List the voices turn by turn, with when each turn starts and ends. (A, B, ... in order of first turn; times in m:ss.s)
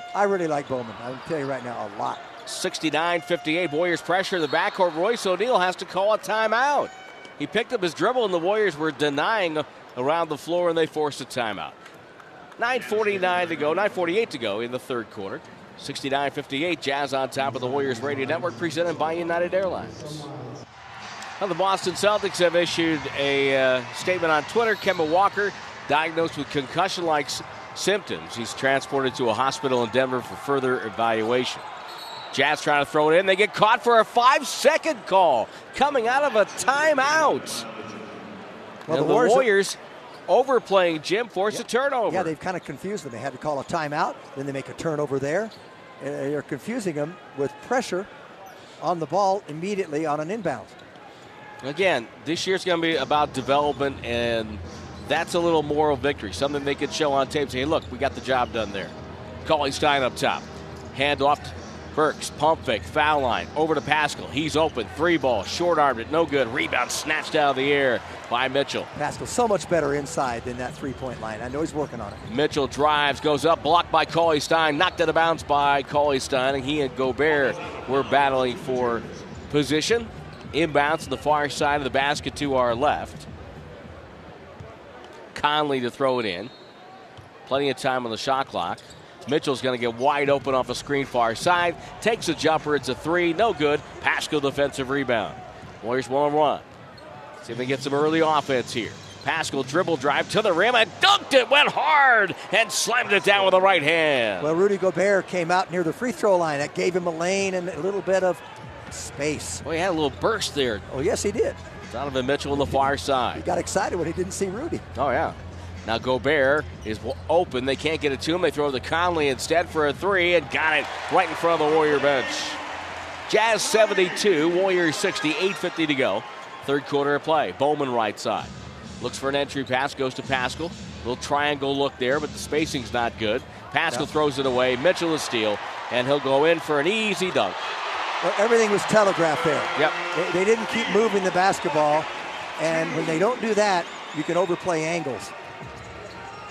0:00.1-0:02.2 A
0:02.4-0:11.8 B
0:12.6-0:20.2 B
0:21.4-0:31.6 B
0:32.3-0:37.7 B
0:38.9-0:39.5 A
0:38.9-0:42.3 B
0:41.5-0:48.1 A
0:48.8-0:50.8 A
0:51.6-0:58.9 B
0:59.4-1:08.9 B
1:08.9-1:12.2 A
1:12.3-1:23.3 B
1:25.3-1:26.5 B
1:27.4-1:36.6 B
1:37.4-1:44.5 B
1:44.4-1:49.6 A
1:49.6-1:50.9 B
1:50.9-1:51.6 A
1:51.8-1:53.4 B
1:53.3-1:54.8 A
1:54.9-2:02.6 B
2:03.3-2:17.6 B
2:18.2-2:25.3 A